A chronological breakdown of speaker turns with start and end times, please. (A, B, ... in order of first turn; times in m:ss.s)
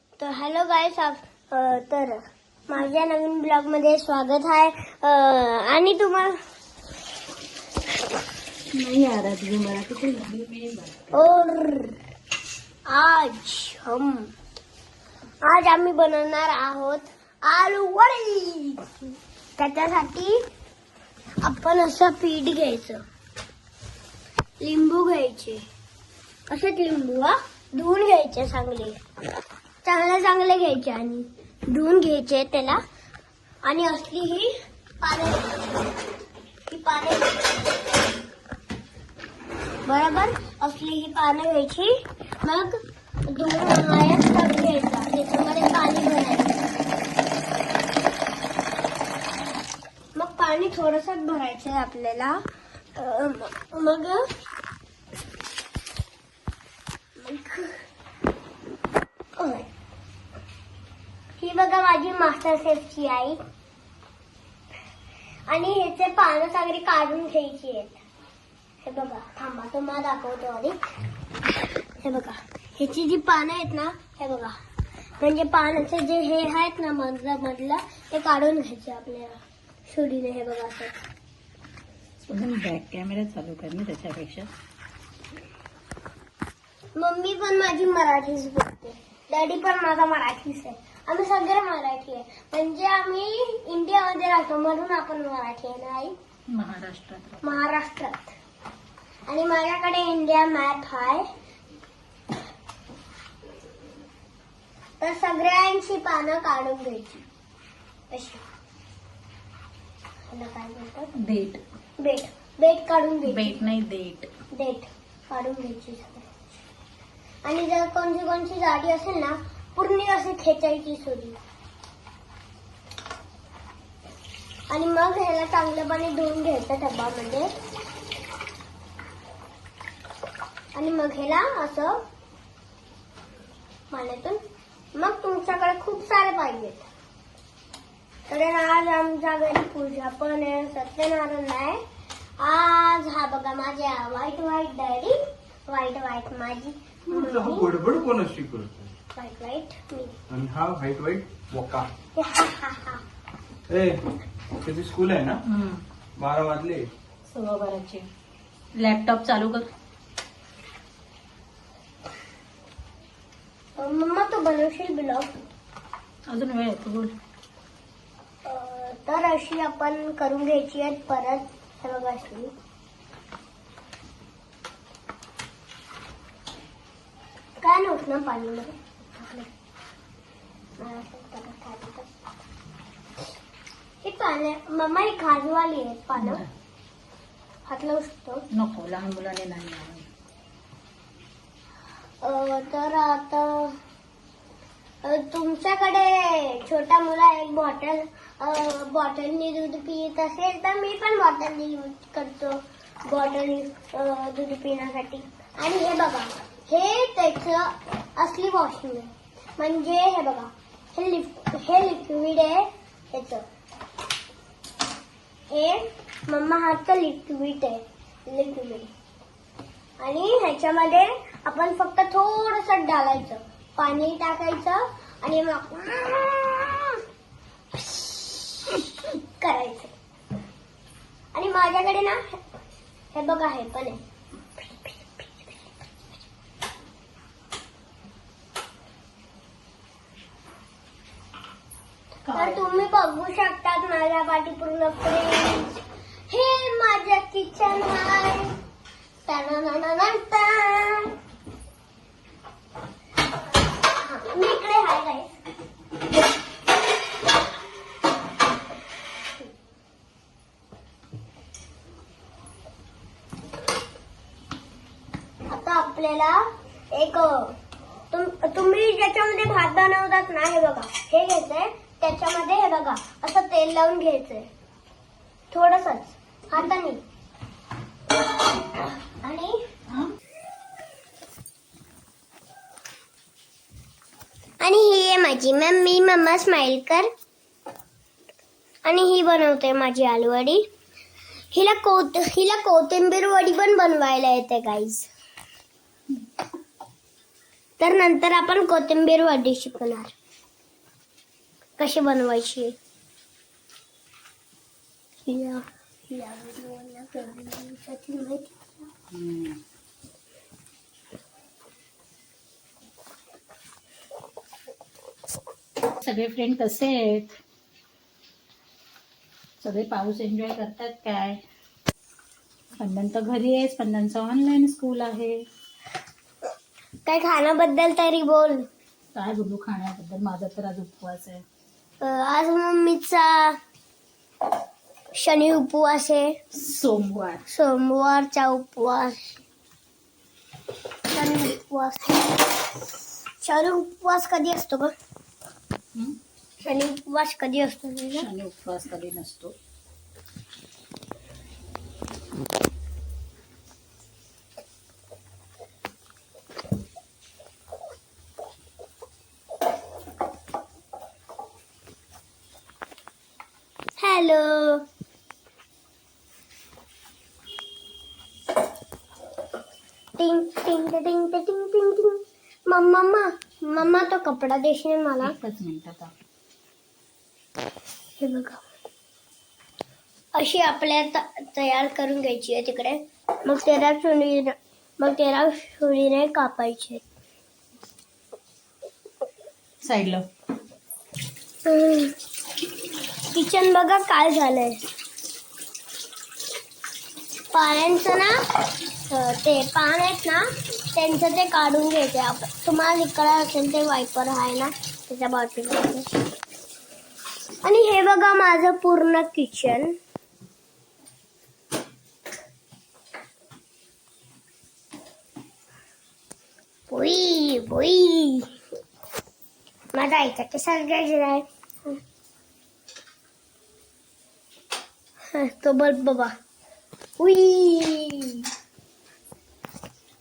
0:00.2-0:06.4 A
0:08.7-0:11.2 B
0:11.1-0:12.0 A
0:12.9-0:14.3 A
0:15.4-0:20.4 A
0:21.4-0:23.0 A
0:24.6-0:25.6 A
0:26.5-0:29.0 A
0:29.8-0:32.8 A
0:33.6-0:35.5 A
0:36.7-0:37.4 A
0:39.9-0:46.6 A
0:50.1-0:52.4 A
0:53.0-0:54.3 A
0:57.2-0:57.8 A
0:59.4-0:59.7 A
1:01.4-1:03.4 A
1:05.5-1:08.0 A
1:08.8-1:10.8 A
1:12.0-1:14.6 A
1:15.2-1:20.9 A
1:22.2-1:24.5 B
1:27.0-1:36.2 A
1:36.5-1:37.6 B
1:37.4-1:38.4 A
1:39.3-1:41.3 A
1:45.0-1:47.3 A
1:48.1-1:48.4 A
1:50.3-1:51.1 A
1:51.2-1:51.6 B
1:52.0-1:53.6 A
1:53.3-1:54.3 B
1:54.5-1:56.5 A
1:57.4-2:01.4 A
2:04.7-2:07.5 A
2:10.8-2:12.0 A
2:13.9-2:14.4 A
2:15.0-2:16.9 A
2:18.3-2:21.8 A
2:22.4-2:27.7 A
2:27.1-2:28.9 C
2:29.2-2:30.2 A
2:30.3-2:31.9 C
2:32.2-2:33.0 A
2:33.7-2:34.0 C
2:34.6-2:35.4 C
2:35.5-2:35.8 B
2:36.2-2:36.9 C
2:37.3-2:38.1 B
2:38.8-2:39.7 B
2:43.8-2:45.3 A
2:46.3-2:47.2 B
2:48.4-2:52.5 A
2:57.6-2:59.5 A
3:00.8-3:02.1 A
3:04.0-3:06.4 A
3:06.2-3:06.5 B
3:07.7-3:08.4 A
3:08.5-3:10.1 B
3:12.2-3:13.8 A
3:15.0-3:33.4 A
3:35.5-3:38.9 A
3:40.0-3:47.0 A
3:47.7-3:49.9 A
3:51.3-3:52.4 A
3:53.1-3:54.0 A
3:54.6-3:55.7 A
4:02.2-4:02.9 B
4:02.3-4:05.8 A
4:06.3-4:08.5 A
4:09.3-4:11.2 A
4:14.0-4:15.3 A
4:25.5-4:27.6 A
4:28.1-4:34.5 A
4:35.5-4:37.0 A
4:39.2-4:39.6 A
4:44.6-4:47.1 A
4:48.8-4:50.7 A
4:51.5-4:55.1 A
4:57.8-5:00.1 A
5:01.8-5:02.8 A
5:05.3-5:08.9 A
5:09.1-5:09.6 B
5:15.8-5:17.4 B
5:19.6-5:21.4 B
5:22.8-5:25.4 B
5:27.1-5:28.7 A
5:29.1-5:31.4 B
5:32.0-5:33.6 A
5:35.1-5:36.4 A
5:36.5-5:37.5 B
5:37.5-5:39.4 A
5:41.1-5:42.4 A
5:43.4-5:44.9 A
5:46.6-5:48.3 A
5:48.1-5:49.5 B
6:04.0-6:04.8 A
6:10.2-6:15.4 A
6:15.2-6:16.1 B
6:18.2-6:18.6 A
6:20.3-6:27.0 A
6:29.8-6:30.2 B
6:31.6-6:32.2 A
6:33.3-6:34.8 A
6:37.5-6:38.4 A
6:39.1-6:46.2 A
6:47.6-6:50.0 A
6:56.9-6:58.5 A
6:59.9-7:02.0 A
7:05.3-7:06.4 A
7:07.2-7:08.5 A